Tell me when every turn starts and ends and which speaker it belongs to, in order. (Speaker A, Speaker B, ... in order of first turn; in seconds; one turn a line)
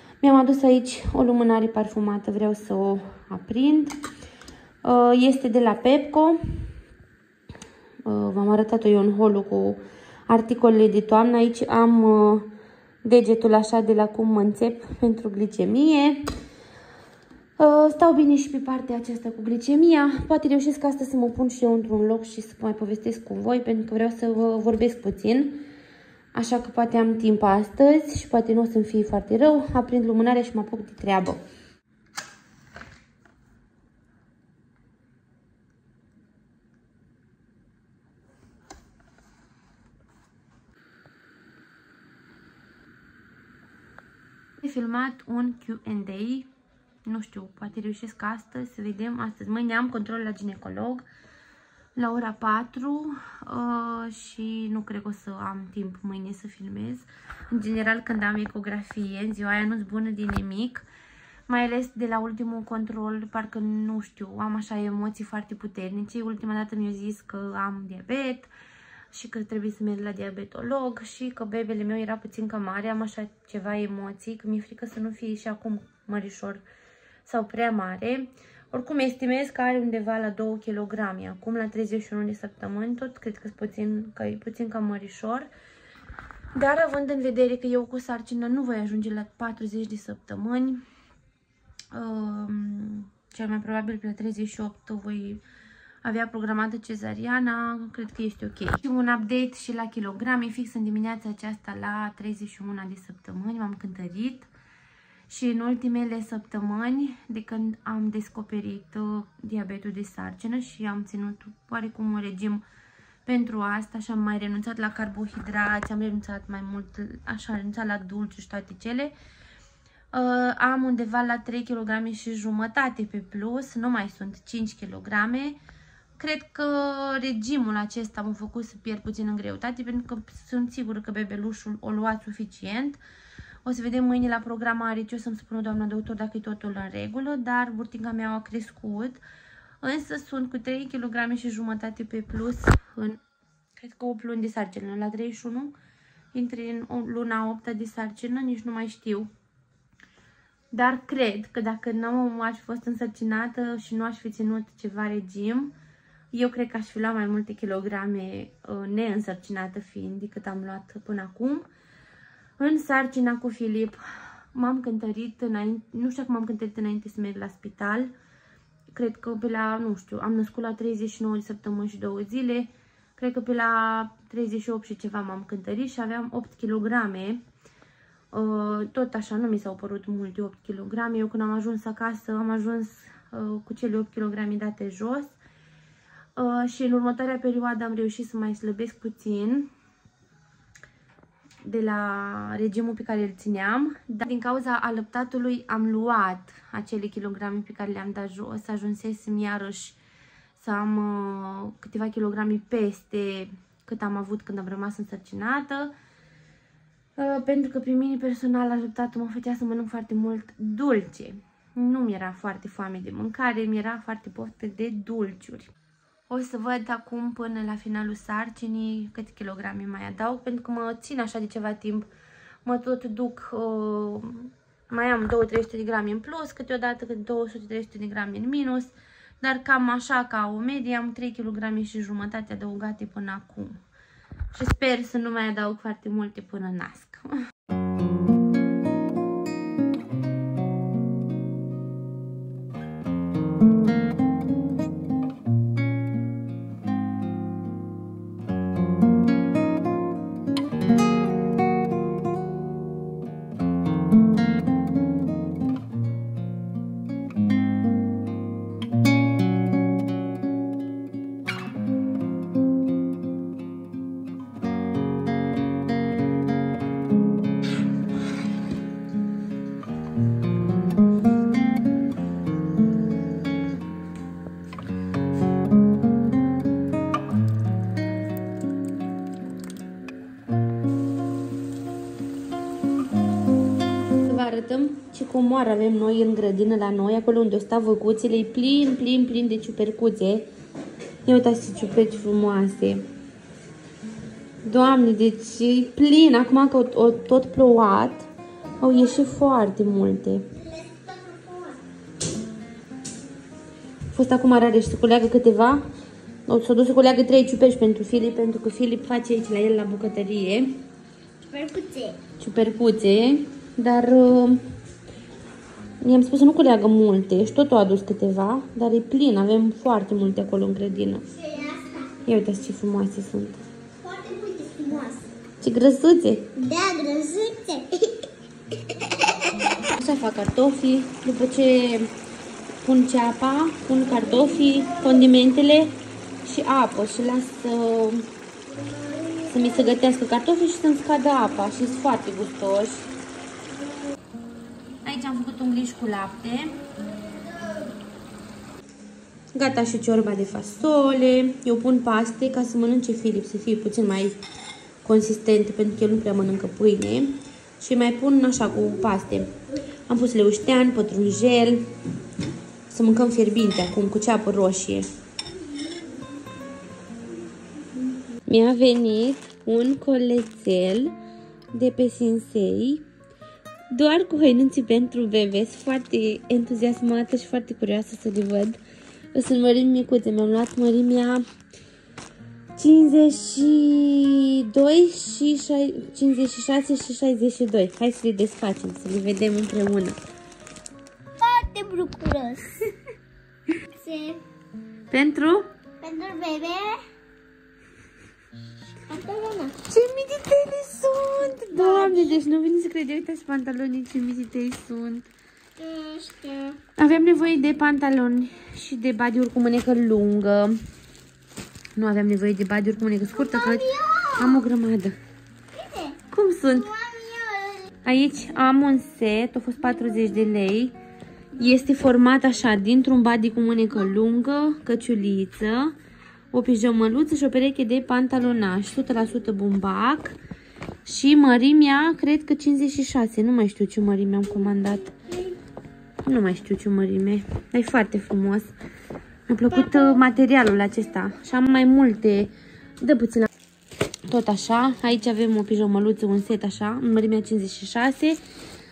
Speaker A: 0.2-4.0
Speaker A: 4.8-6.4
Speaker A: 8.1-12.5
Speaker A: 13.0-16.2
Speaker A: 17.6-25.6
Speaker A: 26.3-31.4
Speaker A: 44.6-46.5
Speaker A: 47.0-51.0
Speaker A: 52.0-60.8
Speaker A: 61.5-68.5
Speaker A: 69.1-76.6
Speaker A: 77.2-85.5
Speaker A: 86.5-90.8
Speaker A: 91.9-95.4
Speaker A: 96.0-104.5
Speaker A: 105.3-112.6
Speaker A: 113.2-119.1
Speaker A: 120.1-125.6
Speaker A: 126.2-133.0
Speaker A: 133.6-139.2
Speaker A: 139.8-143.2
Speaker A: 143.8-145.7
Speaker A: 146.3-149.3
Speaker A: 150.7-155.7
Speaker A: 156.3-161.7
Speaker A: 162.6-164.0
Speaker A: 164.5-168.1
Speaker A: 168.9-177.4
Speaker A: 178.3-185.3
Speaker A: 186.3-189.7
Speaker A: 191.6-200.0
Speaker A: 200.6-205.9
Speaker A: 207.2-215.7
Speaker A: 216.3-222.1
Speaker A: 222.6-233.8
Speaker A: 234.5-237.2
Speaker A: 284.2-290.5
Speaker A: 291.2-293.1
Speaker A: 294.6-298.3
Speaker A: 298.8-300.5
Speaker B: 300.5-301.8
Speaker A: 304.1-305.8
Speaker A: 306.5-310.8
Speaker B: 311.5-312.2
Speaker A: 312.4-314.6
Speaker A: 316.0-321.3
Speaker B: 321.3-322.2
Speaker A: 322.2-323.6
Speaker B: 324.0-325.3
Speaker A: 325.6-326.5
Speaker B: 326.5-328.2
Speaker B: 328.9-329.3
Speaker A: 329.9-332.1
Speaker A: 332.8-338.3
Speaker A: 339.4-343.1
Speaker A: 345.0-346.8
Speaker A: 349.6-354.4
Speaker A: 355.0-359.6
Speaker A: 360.1-361.9
Speaker A: 362.9-365.1
Speaker A: 368.5-371.2
Speaker A: 371.7-373.1
Speaker A: 373.9-378.8
Speaker A: 379.3-381.4
Speaker A: 382.8-390.2
Speaker B: 391.4-392.8
Speaker B: 393.9-394.4
Speaker A: 395.1-395.7
Speaker B: 396.0-397.0
Speaker B: 399.1-399.8
Speaker A: 399.9-405.3
Speaker B: 401.7-402.4
Speaker B: 405.8-406.8
Speaker A: 407.0-410.8
Speaker A: 411.9-415.2
Speaker B: 413.3-414.6
Speaker B: 415.7-416.2
Speaker A: 416.3-416.9
Speaker B: 416.7-417.9
Speaker A: 418.0-420.9
Speaker A: 421.6-425.9
Speaker A: 426.5-430.4
Speaker A: 431.0-435.1
Speaker A: 436.2-438.7
Speaker A: 439.5-443.5
Speaker A: 444.3-448.4